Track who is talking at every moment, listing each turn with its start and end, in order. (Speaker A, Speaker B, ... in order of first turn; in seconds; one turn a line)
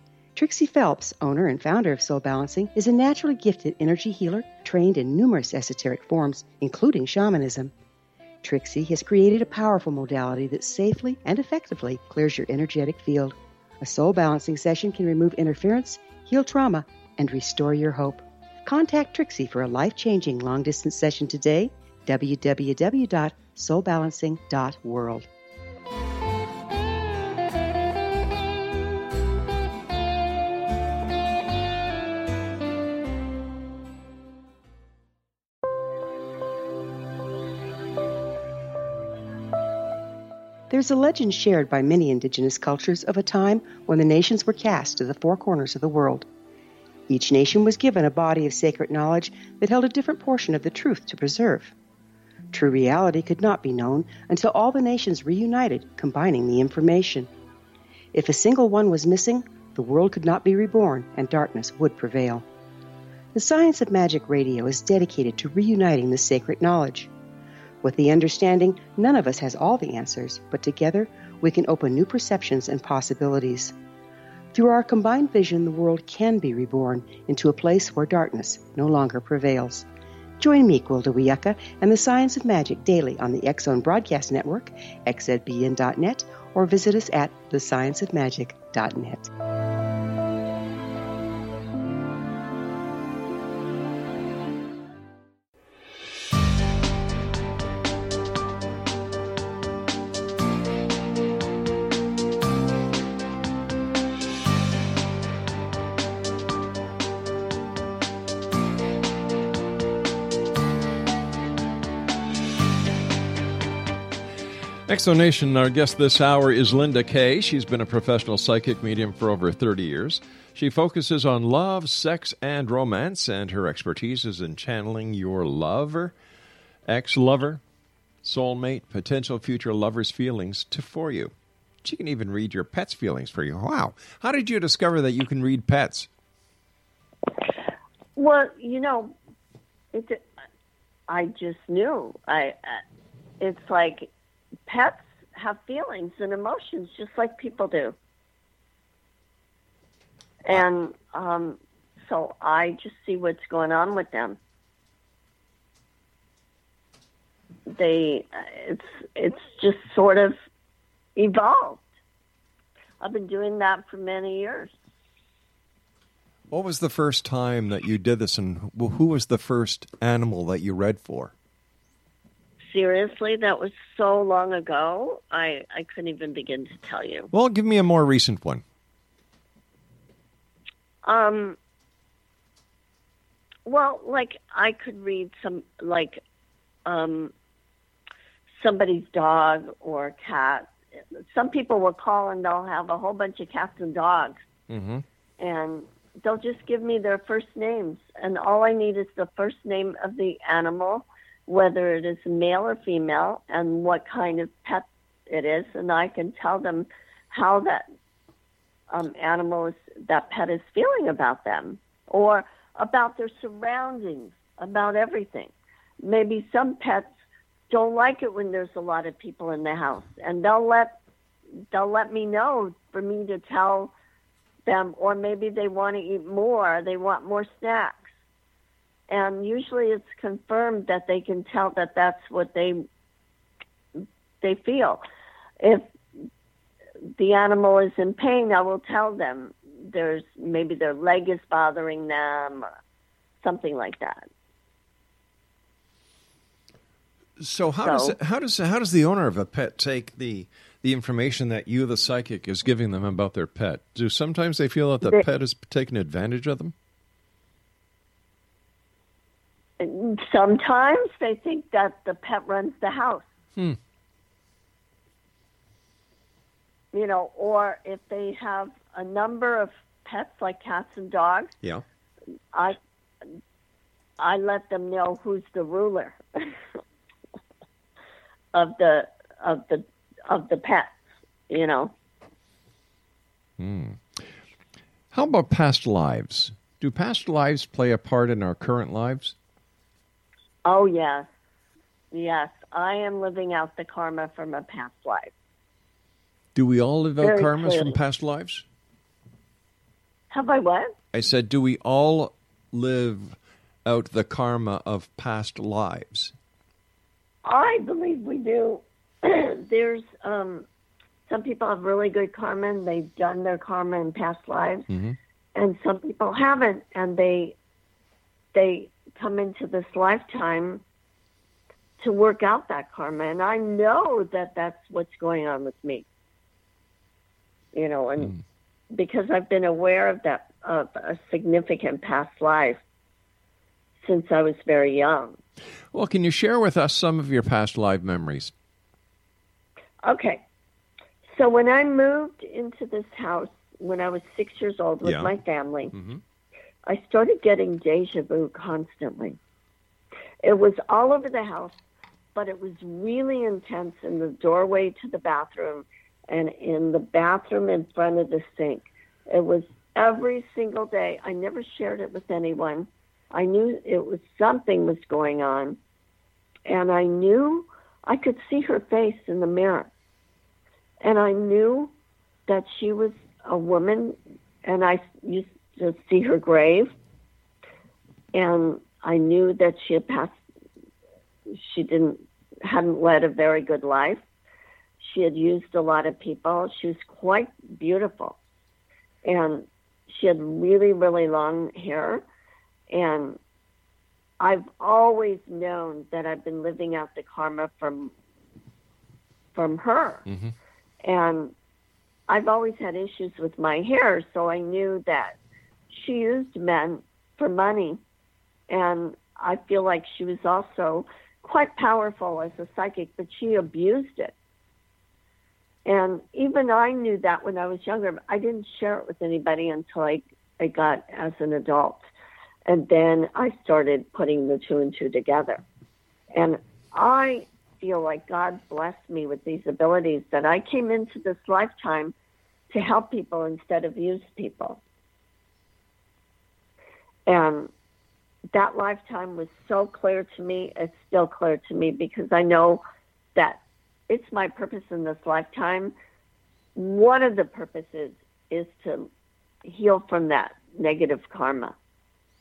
Speaker A: 0.3-7.7
Speaker A: 8.4-25.3
Speaker A: 40.7-46.2
Speaker A: 47.1-51.7
Speaker A: 52.5-57.3
Speaker A: 58.1-62.5
Speaker A: 63.3-67.1
Speaker A: 67.8-73.7
Speaker A: 74.5-79.8
Speaker A: 80.4-89.3
Speaker B: 114.9-126.1
Speaker B: 126.9-127.6
Speaker B: 128.2-136.1
Speaker C: 138.2-139.1
Speaker C: 139.9-140.2
Speaker C: 141.1-142.8
Speaker C: 143.4-144.1
Speaker C: 144.7-147.9
Speaker C: 150.4-154.4
Speaker C: 157.7-160.3
Speaker C: 161.2-161.8
Speaker C: 163.0-164.7
Speaker B: 166.5-171.3
Speaker C: 172.7-177.3
Speaker B: 177.3-178.6
Speaker C: 181.0-181.6
Speaker C: 183.7-186.2
Speaker C: 186.8-187.3
Speaker C: 188.6-190.7
Speaker C: 191.3-194.3
Speaker B: 194.7-195.0
Speaker C: 195.4-207.8
Speaker C: 208.9-217.1
Speaker C: 217.7-220.9
Speaker C: 221.7-223.9
Speaker C: 224.7-228.1
Speaker C: 229.1-232.8
Speaker C: 234.4-235.0
Speaker C: 235.6-235.9
Speaker C: 237.2-242.7
Speaker C: 243.4-244.2
Speaker B: 247.4-256.7
Speaker C: 247.8-248.2
Speaker C: 259.8-263.2
Speaker C: 266.9-271.5
Speaker C: 274.2-276.6
Speaker C: 278.5-280.9
Speaker C: 281.5-281.9
Speaker B: 283.6-284.3
Speaker B: 285.1-289.3
Speaker C: 290.6-291.3
Speaker C: 292.1-295.3
Speaker B: 296.5-298.6
Speaker C: 297.2-297.9
Speaker C: 300.3-300.9
Speaker B: 301.1-306.3
Speaker C: 307.4-310.6
Speaker C: 311.3-314.9
Speaker B: 314.9-315.2
Speaker C: 315.6-317.5
Speaker C: 318.5-320.8
Speaker C: 322.0-326.1
Speaker C: 327.7-328.3
Speaker C: 328.9-332.8
Speaker C: 334.0-335.4
Speaker B: 335.9-338.5
Speaker C: 340.0-340.4
Speaker C: 341.3-345.9
Speaker B: 345.0-345.3
Speaker B: 345.9-346.2
Speaker C: 346.9-349.4
Speaker C: 350.4-351.8
Speaker C: 352.3-365.8
Speaker C: 366.7-369.9
Speaker C: 371.0-371.9
Speaker C: 372.5-376.9
Speaker C: 378.3-380.3
Speaker C: 381.5-384.2
Speaker C: 385.0-388.4
Speaker C: 389.2-392.2
Speaker C: 392.9-393.4
Speaker C: 394.4-398.1
Speaker C: 399.5-400.2
Speaker B: 400.3-400.5
Speaker C: 401.0-401.5
Speaker C: 402.3-405.4
Speaker C: 405.9-408.0
Speaker C: 408.7-414.3
Speaker C: 415.9-422.0
Speaker C: 422.6-425.6
Speaker C: 426.3-432.1
Speaker C: 432.7-434.8
Speaker C: 437.3-437.7
Speaker C: 438.5-442.8
Speaker C: 443.3-445.9
Speaker C: 446.8-449.1
Speaker C: 449.6-451.7